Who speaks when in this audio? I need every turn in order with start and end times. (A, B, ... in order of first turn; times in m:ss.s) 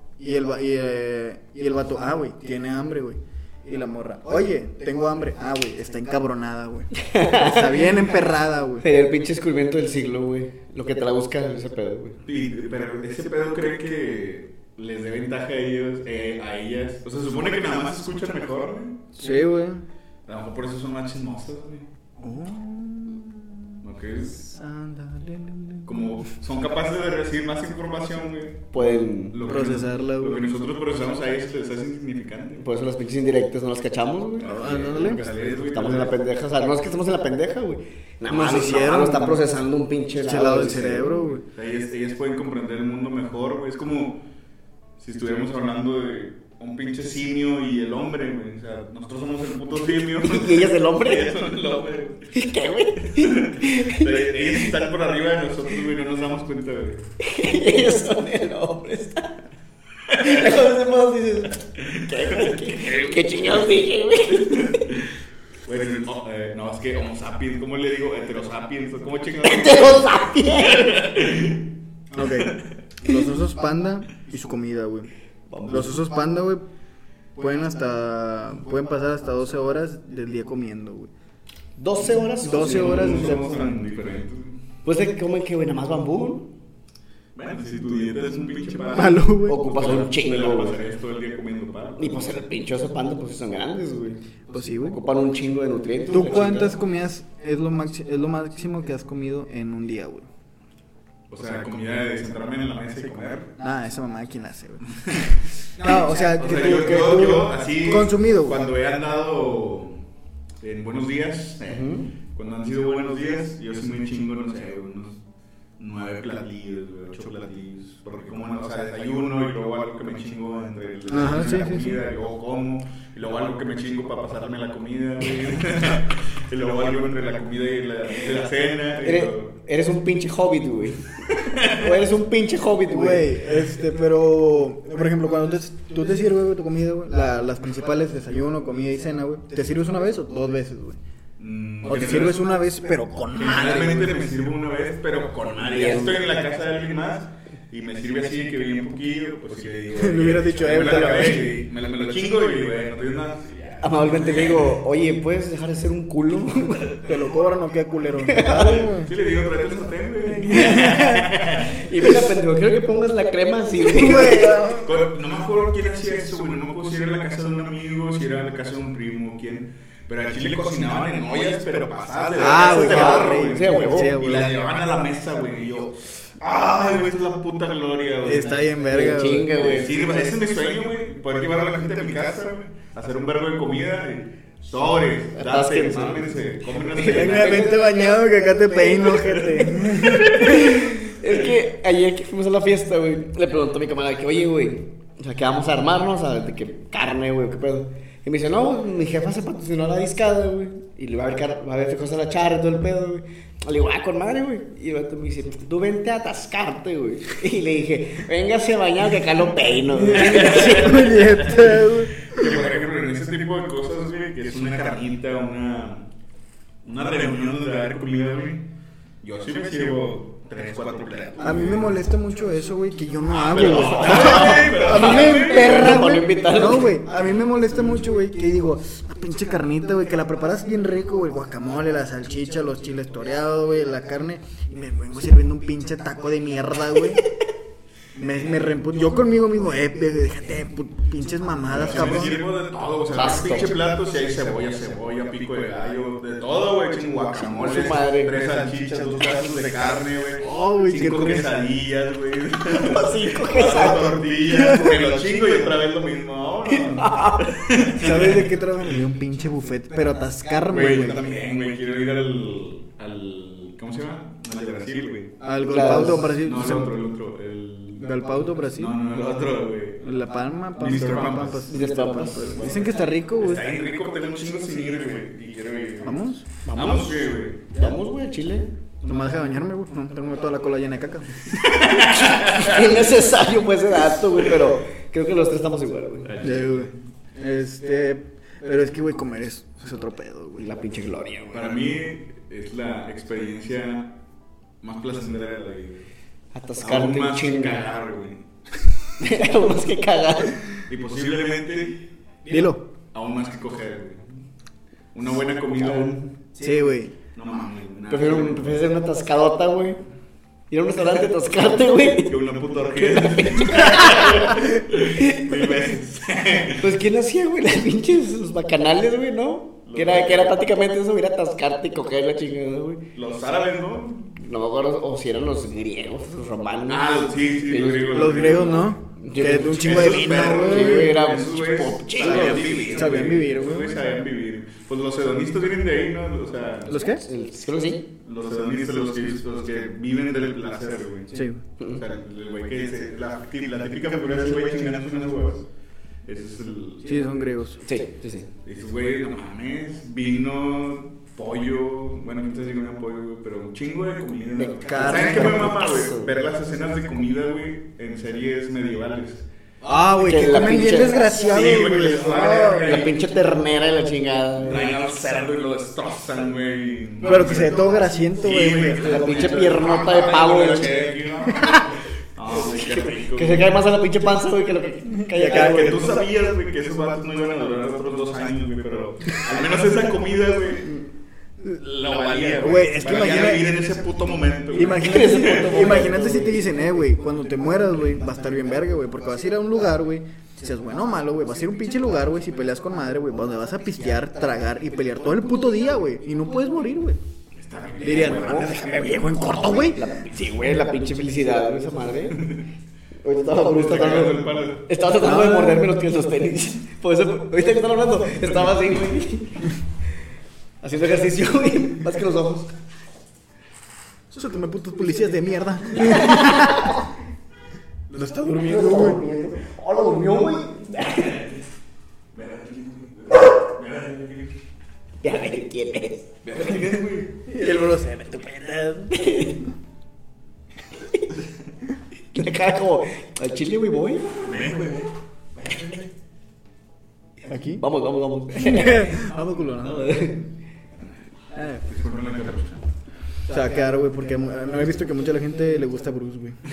0:00.2-0:08.8 A
0:07.0-0:07.9 B
0:08.8-0:12.2 B
0:12.3-0:19.1 C
0:19.2-0:19.8 A
0:20.3-0:21.9 C
0:22.2-0:26.0 A
0:23.8-0:24.4 C
0:25.8-0:32.6 C
0:28.7-0:29.4 B
0:29.4-0:30.5 A
0:32.6-0:34.8 B
0:34.4-0:36.2 C
0:34.4-0:35.2 A
0:35.7-0:41.2 B
0:38.3-0:39.4 A
0:40.2-0:41.4 A
0:41.4-0:44.2 C
0:45.0-0:52.4 C
0:50.2-0:51.4 B
0:52.3-0:54.7 B
0:53.0-0:57.0 C
0:57.2-0:59.3 B
1:00.1-1:04.8 B
1:00.1-1:00.4 C
1:02.1-1:03.5 C
1:04.3-1:05.1 C
1:05.6-1:11.6 C
1:09.4-1:11.0 B
1:12.1-1:15.1 A
1:12.2-1:12.6 C
1:15.5-1:15.9 B
1:15.7-1:16.6 A
1:17.4-1:21.1 A
1:21.8-1:23.4 B
1:22.4-1:23.7 A
1:22.5-1:24.6 C
1:24.8-1:26.5 B
1:27.4-1:32.4 C
1:28.9-1:29.6 A
1:29.4-1:30.8 B
1:32.0-1:34.2 B
1:34.5-1:35.0 A
1:34.8-1:36.8 B
1:36.1-1:40.3 A
1:41.3-1:43.6 C
1:43.6-1:44.8 A
1:45.0-1:50.0 C
1:45.8-1:48.6 A
1:50.6-1:55.2 C
1:51.7-1:52.1 B
1:55.8-2:09.5 C
2:01.1-2:02.0 A
2:09.0-2:13.3 B
2:11.3-2:11.9 C
2:12.9-2:21.0 A
2:21.4-2:22.4 C
2:21.8-2:24.2 A
2:23.3-2:34.7 C
2:25.6-2:26.2 B
2:29.9-2:31.6 A
2:33.8-2:37.0 B
2:37.0-2:39.1 A
2:38.3-2:38.7 B
2:38.5-2:42.1 C
2:40.5-2:41.3 A
2:40.6-2:40.9 B
2:41.7-2:44.6 B
2:43.8-2:44.9 A
2:44.7-2:58.7 C
2:52.4-2:54.6 A
2:52.5-2:54.2 B
2:58.2-2:59.5 A
2:58.8-3:00.3 B
2:59.5-3:07.7 C
3:05.4-3:06.3 B
3:06.9-3:09.2 B
3:07.0-3:10.6 A
3:09.2-3:10.7 C
3:10.3-3:31.1 B
3:30.0-3:32.6 A
3:30.2-3:36.1 C
3:36.8-3:38.7 C
3:39.2-3:42.0 C
3:41.4-3:57.2 A
3:43.4-3:46.0 C
3:44.0-3:47.0 B
3:58.2-4:02.4 A
4:01.7-4:18.5 C
4:03.1-4:03.8 B
4:07.6-4:08.3 B
4:10.4-4:11.5 A
4:12.7-4:14.2 B
4:14.5-4:15.0 A
4:16.7-4:17.6 B
4:17.9-4:21.2 A
4:20.7-4:30.1 C
4:25.4-4:27.0 A
4:25.7-4:26.3 B
4:28.0-4:29.0 A
4:30.0-4:33.7 A
4:30.8-4:36.2 C
4:31.7-4:32.9 B
4:36.0-4:36.4 A
4:36.6-4:38.7 B
4:36.7-4:37.8 C
4:39.0-4:41.5 A
4:41.6-4:42.9 C
4:41.9-4:46.3 B
4:46.3-4:46.9 C
4:46.4-4:50.7 A
4:50.6-4:51.8 B
4:51.5-4:54.2 C
4:54.8-4:56.0 C
4:56.5-4:57.9 B
4:56.8-4:58.5 C
4:59.2-5:00.6 B
5:00.8-5:02.0 C
5:02.5-5:02.9 A
5:03.1-5:04.4 C
5:05.1-5:06.5 C
5:06.6-5:07.2 A
5:07.3-5:08.8 C
5:08.1-5:10.0 B
5:10.7-5:15.8 B
5:12.2-5:17.0 C
5:16.8-5:23.0 B
5:19.9-5:20.6 C
5:23.1-5:24.4 C
5:24.4-5:28.3 B
5:26.9-5:37.1 C
5:28.1-5:31.1 A
5:29.2-5:33.0 B
5:32.2-5:34.0 A
5:36.9-5:37.2 A
5:37.2-5:38.1 B
5:38.2-5:45.7 C
5:41.3-5:41.6 A
5:46.2-5:47.4 C
5:47.0-5:47.8 A
5:47.8-5:48.5 B
5:48.6-5:59.5 C
5:54.6-5:56.3 B
5:54.8-5:55.8 A
5:59.8-6:03.0 A
6:00.2-6:01.2 B
6:01.2-6:03.2 C
6:02.4-6:04.9 B
6:04.6-6:07.8 C
6:07.2-6:09.4 A
6:08.4-6:13.8 C
6:09.0-6:11.0 B
6:12.6-6:16.1 B
6:15.3-6:16.3 A
6:15.5-6:21.0 C
6:21.6-6:26.0 C
6:22.6-6:23.7 A
6:24.7-6:37.2 A
6:25.0-6:26.6 B
6:37.6-6:39.2 C
6:38.0-6:40.0 A
6:38.1-6:42.6 B
6:43.2-6:49.7 B
6:43.6-6:44.8 C
6:45.2-6:45.8 A
6:50.8-6:52.7 B
6:54.3-6:57.0 A
6:56.0-6:57.0 B
6:58.1-6:59.3 A
6:58.5-7:01.5 B
7:02.3-7:04.6 C
7:05.2-7:06.3 B
7:06.4-7:07.4 C
7:07.5-7:09.2 A
7:09.1-7:09.6 B
7:12.3-7:14.6 B
7:14.4-7:15.1 C
7:15.7-7:16.0 C
7:17.5-7:17.8 A
7:17.8-7:19.3 B
7:18.6-7:20.2 A
7:19.8-7:20.5 B
7:21.5-7:21.8 A
7:21.8-7:22.8 C
7:23.5-7:26.6 A